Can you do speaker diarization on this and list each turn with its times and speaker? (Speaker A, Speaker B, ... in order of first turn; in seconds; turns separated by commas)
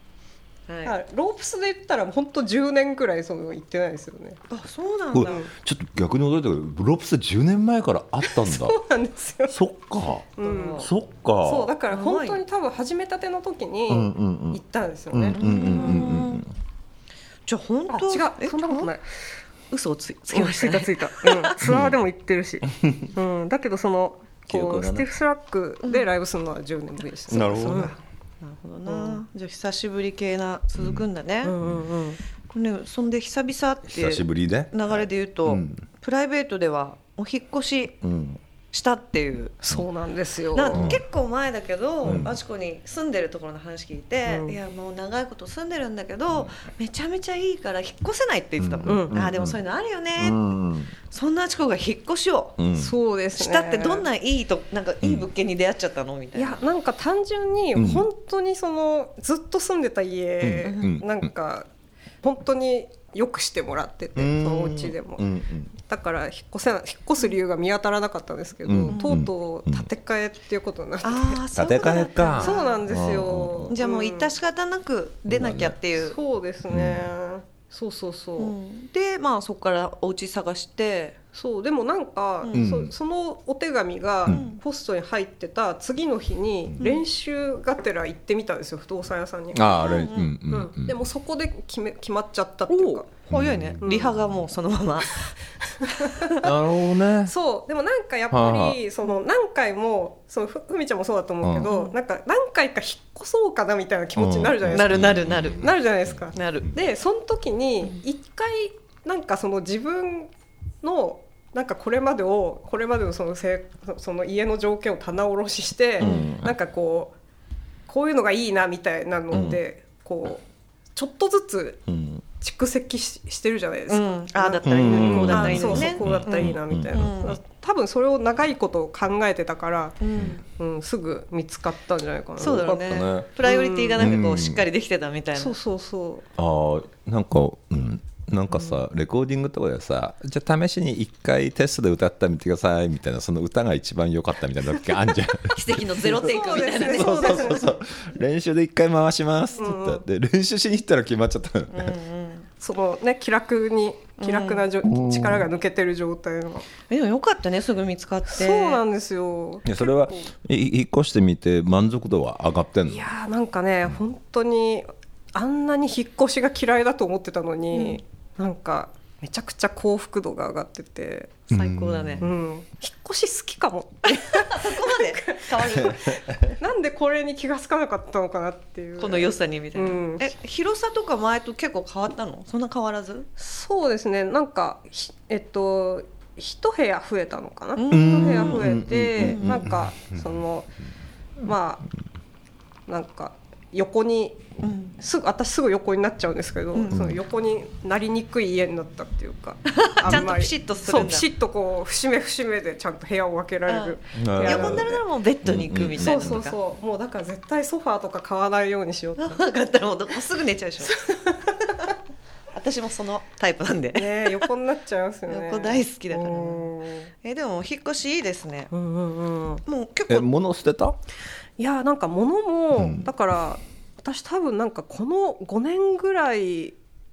Speaker A: 0.7-0.9, Speaker B: 0.8-4.4, Speaker A: 4.5-5.4, Speaker C: 5.1-8.8, Speaker B: 5.2-5.5, Speaker B: 8.2-9.6, Speaker C: 9.5-11.7, Speaker B: 10.4-10.9, Speaker A: 10.4-10.8, Speaker B: 11.4-16.1, Speaker A: 11.9-12.4, Speaker C: 13.9-14.6, Speaker C: 15.1-16.5, Speaker A: 15.4-16.4, Speaker A: 17.5-18.9, Speaker B: 17.9-19.1, Speaker A: 19.7-21.5, Speaker B: 20.3-27.9, Speaker C: 21.6-22.0, Speaker C: 22.7-23.1, Speaker C: 24.5-25.1, Speaker C: 27.3-27.9, Speaker A: 27.4-31.6, Speaker B: 28.9-29.2, Speaker C: 30.8-31.1, Speaker B: 31.4-32.2, Speaker A: 32.5-38.0, Speaker C: 33.9-35.8, Speaker C: 38.0-38.4, Speaker A: 38.7-39.6, Speaker B: 39.6-41.0, Speaker A: 40.5-50.4, Speaker C: 40.7-41.0, Speaker C: 42.0-42.4, Speaker B: 44.3-44.6, Speaker C: 48.6-49.6, Speaker B: 48.9-49.2, Speaker C: 50.2-50.9, Speaker A: 51.1-52.6, Speaker C: 52.6-53.0, Speaker B: 52.7-54.1, Speaker A: 53.3-56.6, Speaker C: 55.0-55.3, Speaker B: 56.4-61.7, Speaker C: 57.8-58.1, Speaker C: 60.4-61.3, Speaker A: 60.6-60.9, Speaker B: 62.2-71.4, Speaker C: 64.2-65.7, Speaker C: 68.7-69.9, Speaker A: 68.9-69.2, Speaker A: 71.0-72.8, Speaker C: 71.5-73.7, Speaker B: 72.4-74.3, Speaker A: 73.7-76.2, Speaker C: 75.3-75.8, Speaker B: 76.0-78.5, Speaker C: 76.7-77.0, Speaker A: 78.4-81.2, Speaker B: 81.3-93.1, Speaker C: 82.5-82.9, Speaker A: 84.3-84.6, Speaker C: 89.5-91.0, Speaker A: 89.8-90.3, Speaker A: 92.7-95.3, Speaker C: 93.3-93.8, Speaker B: 93.8-94.2, Speaker B: 95.8-96.5, Speaker C: 96.4-97.3, Speaker B: 97.3-110.3, Speaker C: 98.3-98.8, Speaker C: 101.4-101.7, Speaker C: 104.2-105.7, Speaker A: 104.7-105.7, Speaker A: 106.3-106.7, Speaker B: 110.8-117.2, Speaker C: 116.0-116.5, Speaker A: 116.0-116.3, Speaker B: 117.9-121.8, Speaker C: 119.3-119.6, Speaker C: 121.9-122.2, Speaker B: 122.4-132.8, Speaker A: 123.9-127.4, Speaker C: 124.6-127.1, Speaker A: 130.0-130.4, Speaker A: 132.4-135.6, Speaker C: 132.4-133.3, Speaker B: 133.4-134.2, Speaker C: 134.0-134.7, Speaker B: 135.3-136.3, Speaker C: 136.4-151.9, Speaker A: 145.5-147.7, Speaker B: 146.2-147.7, Speaker B: 149.6-150.0, Speaker A: 151.7-152.5, Speaker B: 152.6-156.7, Speaker A: 154.2-154.7, Speaker C: 154.9-155.5, Speaker A: 156.9-158.8, Speaker B: 158.3-160.3, Speaker C: 159.7-163.1, Speaker B: 162.9-171.3, Speaker A: 167.7-168.0, Speaker C: 171.5-172.3, Speaker A: 171.5-172.3, Speaker B: 172.2-180.3, Speaker A: 174.2-176.2, Speaker A: 179.0-183.3, Speaker B: 183.4-190.7, Speaker A: 187.8-189.6, Speaker C: 187.9-190.4, Speaker B: 191.4-191.8, Speaker B: 192.9-194.4, Speaker A: 194.6-194.9, Speaker B: 195.0-205.0, Speaker A: 196.8-197.0, Speaker C: 196.9-197.2, Speaker A: 199.7-201.3, Speaker A: 203.7-206.6, Speaker C: 204.1-204.9, Speaker C: 205.4-206.4, Speaker B: 206.0-209.4, Speaker A: 209.2-211.0, Speaker B: 210.9-211.9, Speaker A: 212.5-214.5, Speaker B: 213.9-217.1, Speaker A: 215.3-216.7, Speaker A: 217.2-218.7, Speaker B: 218.7-219.6, Speaker A: 219.7-220.3, Speaker C: 220.1-221.0, Speaker B: 221.6-226.8, Speaker C: 222.8-223.0